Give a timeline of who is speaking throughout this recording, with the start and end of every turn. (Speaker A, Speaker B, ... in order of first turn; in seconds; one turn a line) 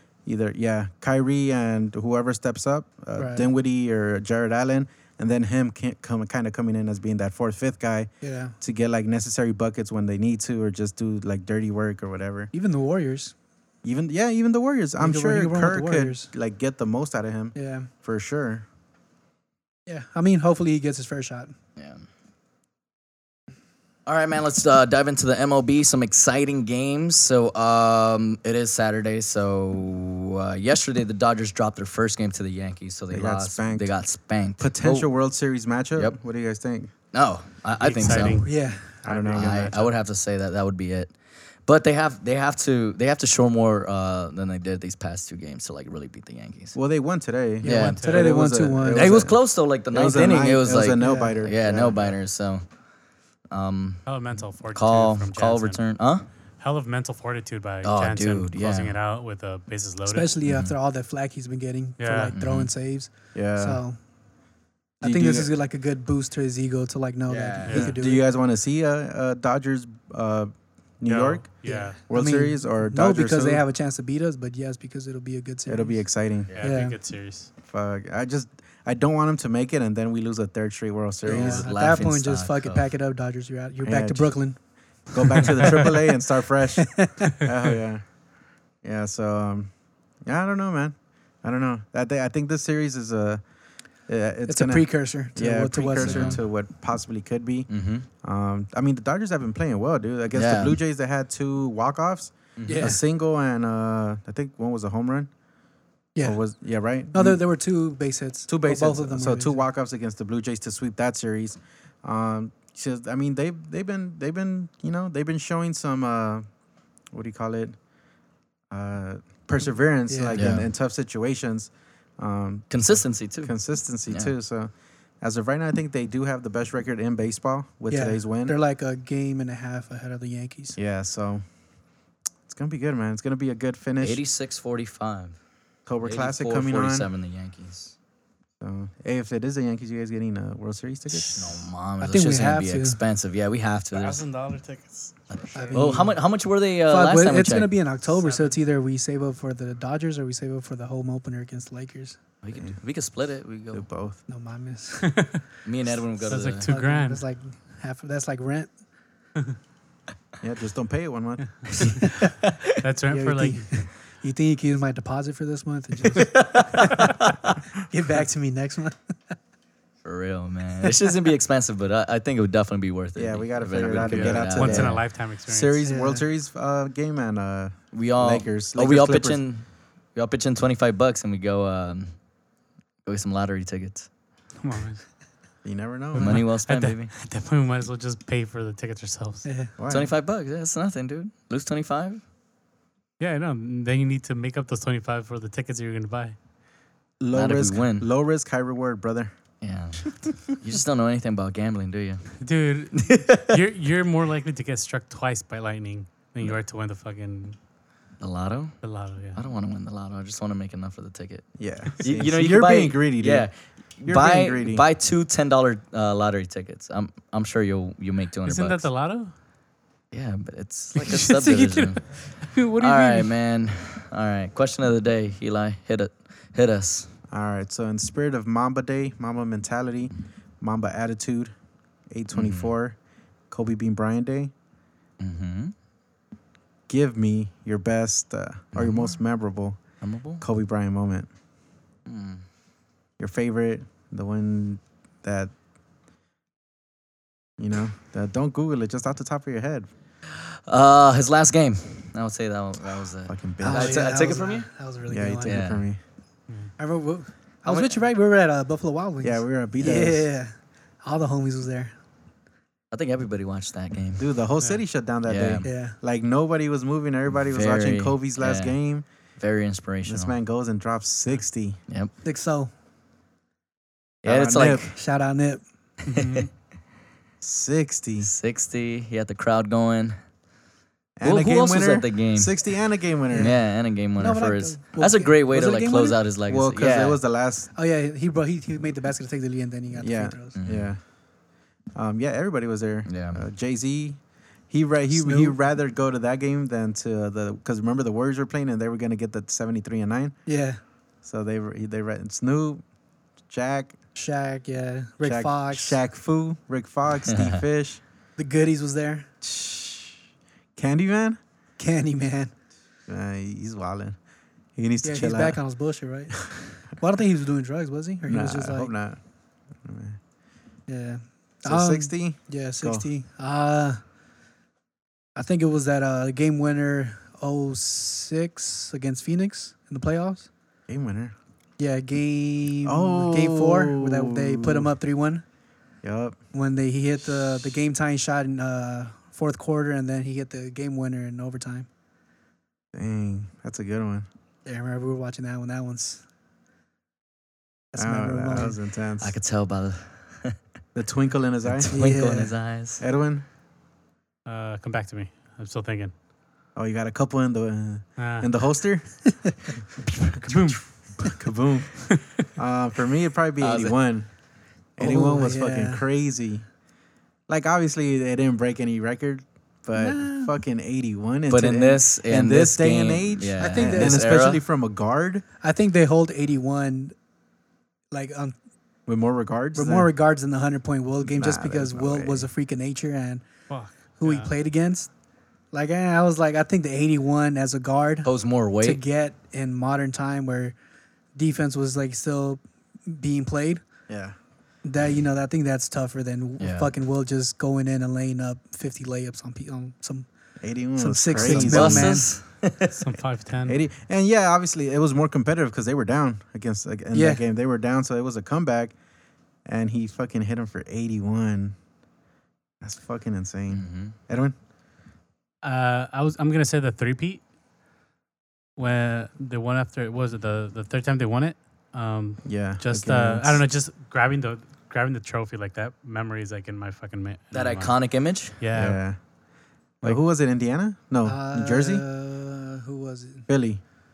Speaker A: 0.2-12.5
Speaker B: 3.2-3.5
Speaker B: 8.2-8.6
Speaker B: 12.5-13.3
Speaker A: 13.8-18.6
Speaker B: 15.0-16.3
Speaker B: 17.5-17.9
Speaker B: 19.9-21.5
Speaker C: 21.8-22.1
Speaker C: 24.1-35.1
Speaker A: 33.1-33.9
Speaker A: 34.6-36.9
Speaker C: 37.1-38.5
Speaker D: 37.8-39.9
Speaker B: 38.4-39.0
Speaker A: 39.0-39.8
Speaker C: 39.3-41.1
Speaker C: 41.6-46.8
Speaker A: 46.7-52.2
Speaker C: 47.6-48.0
Speaker B: 47.6-49.2
Speaker D: 47.9-48.2
Speaker C: 48.9-52.6
Speaker B: 51.0-51.4
Speaker C: 53.5-54.0
Speaker D: 54.0-55.8
Speaker C: 54.7-56.2
Speaker D: 56.6-60.3
Speaker C: 57.8-59.0
Speaker B: 60.0-64.0
Speaker C: 60.5-60.7
Speaker D: 62.0-62.4
Speaker C: 62.4-62.7
Speaker A: 63.3-63.8
Speaker B: 65.0-68.2
Speaker A: 65.0-65.5
Speaker C: 67.3-67.9
Speaker D: 67.6-67.9
Speaker A: 67.7-73.6
Speaker D: 71.0-72.0
Speaker B: 71.6-76.0
Speaker A: 75.7-76.5
Speaker D: 76.5-77.5
Speaker B: 76.6-77.0
Speaker A: 77.6-81.7
Speaker C: 81.2-82.9
Speaker B: 81.3-84.6
Speaker A: 83.8-88.1
Speaker B: 85.3-85.9
Speaker B: 86.9-87.3
Speaker A: 88.8-89.7
Speaker A: 90.2-93.4
Speaker A: 94.1-97.7
Speaker B: 94.5-96.4
Speaker C: 96.0-96.4
Speaker C: 97.7-98.0
Speaker A: 98.2-105.3
Speaker C: 100.3-100.8
Speaker C: 102.6-102.9
Speaker B: 102.7-103.0
Speaker A: 106.2-107.4
Speaker B: 107.1-109.6
Speaker A: 108.5-116.5
Speaker A: 117.1-117.8
Speaker A: 118.7-128.5
Speaker B: 120.1-120.5
Speaker C: 120.3-120.7
Speaker C: 122.7-123.5
Speaker C: 124.1-124.3
Speaker B: 127.9-130.8
Speaker A: 130.8-131.4
Speaker A: 132.5-134.2
Speaker C: 134.0-135.4
Speaker A: 135.8-137.1
Speaker C: 136.0-137.9
Speaker A: 138.6-141.7
Speaker C: 141.1-144.2
Speaker B: 142.0-143.0
Speaker D: 143.9-146.0
Speaker C: 145.3-147.7
Speaker B: 145.5-146.1
Speaker B: 146.9-152.2
Speaker D: 148.2-148.6
Speaker C: 152.4-153.8
Speaker A: 153.7-154.2
Speaker B: 154.3-155.4
Speaker C: 155.6-156.7
Speaker B: 156.2-158.7
Speaker D: 156.3-157.2
Speaker A: 160.4-162.0
Speaker C: 161.8-162.6
Speaker D: 162.8-163.7
Speaker B: 163.1-166.9
Speaker C: 166.2-167.5
Speaker B: 167.9-169.0
Speaker C: 170.0-175.0
Speaker A: 173.2-179.4
Speaker D: 173.8-175.8
Speaker B: 175.8-176.2
Speaker C: 177.9-179.6
Speaker C: 180.1-182.1
Speaker C: 183.1-184.1
Speaker D: 184.6-185.0
Speaker A: 185.6-186.4
Speaker D: 186.1-189.5
Speaker C: 186.2-187.1
Speaker B: 189.4-189.7
Speaker A: 189.8-190.1
Speaker C: 189.9-192.2
Speaker D: 193.2-196.3
Speaker A: 197.2-199.3
Speaker C: 197.3-198.1
Speaker C: 199.6-202.3
Speaker D: 202.4-207.6
Speaker C: 202.9-203.6
Speaker C: 208.2-208.8
Speaker D: 208.8-209.4
Speaker C: 209.3-218.9
Speaker A: 211.6-213.5
Speaker A: 214.0-214.8
Speaker D: 218.4-219.3
Speaker C: 220.1-227.1
Speaker D: 220.9-223.3
Speaker A: 227.3-231.5
Speaker A: 232.1-232.9
Speaker C: 232.3-232.7
Speaker A: 233.5-234.5
Speaker C: 235.2-235.7
Speaker A: 236.9-239.8
Speaker C: 238.7-239.2
Speaker C: 240.0-240.4
Speaker A: 240.4-241.3
Speaker C: 242.1-242.4
Speaker A: 243.2-245.5
Speaker A: 247.6-249.9
Speaker C: 250.3-254.7
Speaker A: 252.8-254.1
Speaker B: 253.6-255.6
Speaker A: 255.1-256.0
Speaker C: 255.4-255.8
Speaker B: 256.8-261.9
Speaker C: 257.6-258.0
Speaker A: 259.2-260.3
Speaker C: 262.9-264.3
Speaker A: 264.2-269.0
Speaker C: 265.2-265.7
Speaker B: 265.6-265.9
Speaker C: 267.5-268.7
Speaker C: 269.4-270.3
Speaker A: 270.1-271.8
Speaker B: 272.2-272.7
Speaker C: 274.2-274.9
Speaker A: 274.2-274.9
Speaker B: 274.9-275.6
Speaker D: 276.1-276.5
Speaker A: 277.4-278.3
Speaker C: 278.2-280.2
Speaker A: 281.2-283.5
Speaker C: 281.2-282.7
Speaker B: 283.3-283.6
Speaker C: 283.3-287.2
Speaker B: 284.2-286.2
Speaker A: 286.5-287.7
Speaker B: 287.7-290.5
Speaker A: 289.9-291.0
Speaker C: 290.5-290.9
Speaker A: 291.9-300.4
Speaker C: 293.1-293.4
Speaker B: 295.1-295.5
Speaker B: 300.5-300.8
Speaker A: 301.2-302.8
Speaker A: 303.5-304.0
Speaker B: 304.1-306.0
Speaker A: 305.2-308.0
Speaker C: 307.3-307.6
Speaker B: 308.4-309.3
Speaker A: 309.4-310.2
Speaker A: 310.8-311.4
Speaker B: 311.8-312.5
Speaker A: 313.1-314.2
Speaker A: 314.8-315.6
Speaker B: 315.0-318.9
Speaker A: 318.2-319.2
Speaker A: 319.8-320.2
Speaker B: 320.9-324.0
Speaker A: 321.6-323.1
Speaker B: 325.4-330.5
Speaker A: 330.9-331.3
Speaker B: 331.8-335.4
Speaker A: 332.8-334.9
Speaker A: 336.0-336.4
Speaker B: 336.5-341.9
Speaker A: 342.9-344.3
Speaker B: 344.6-346.2
Speaker B: 347.9-348.8
Speaker A: 347.9-349.4
Speaker C: 349.2-350.6
Speaker A: 350.9-351.9
Speaker C: 351.8-353.0
Speaker B: 351.9-352.5
Speaker A: 353.0-353.4
Speaker D: 354.4-356.1
Speaker A: 356.7-359.2
Speaker D: 358.2-358.5
Speaker A: 360.0-364.3
Speaker D: 360.4-361.4
Speaker C: 363.6-364.0
Speaker A: 364.9-366.6
Speaker B: 365.0-366.0
Speaker A: 367.5-375.4
Speaker B: 369.9-370.5
Speaker C: 371.5-374.6
Speaker B: 373.6-374.4
Speaker B: 375.6-377.1
Speaker B: 378.1-378.5
Speaker A: 379.1-380.1
Speaker B: 379.7-383.4
Speaker A: 381.2-382.5
Speaker D: 383.7-384.5
Speaker B: 384.2-385.1
Speaker B: 385.7-388.3
Speaker C: 388.2-389.0
Speaker B: 388.8-390.7
Speaker B: 391.3-393.8
Speaker A: 394.1-394.3
Speaker B: 394.8-400.3
Speaker C: 396.6-396.9
Speaker A: 400.6-402.2
Speaker B: 400.9-402.3
Speaker C: 401.3-402.9
Speaker D: 402.9-403.8
Speaker A: 403.6-408.9
Speaker B: 407.1-407.4
Speaker A: 409.6-411.8
Speaker A: 412.8-414.5
Speaker C: 413.7-414.1
Speaker D: 415.6-417.4
Speaker D: 418.8-428.0
Speaker A: 422.4-423.6
Speaker C: 427.5-428.6
Speaker D: 428.6-429.0
Speaker A: 428.7-429.2
Speaker A: 430.0-432.0
Speaker B: 431.2-433.5
Speaker A: 433.5-433.8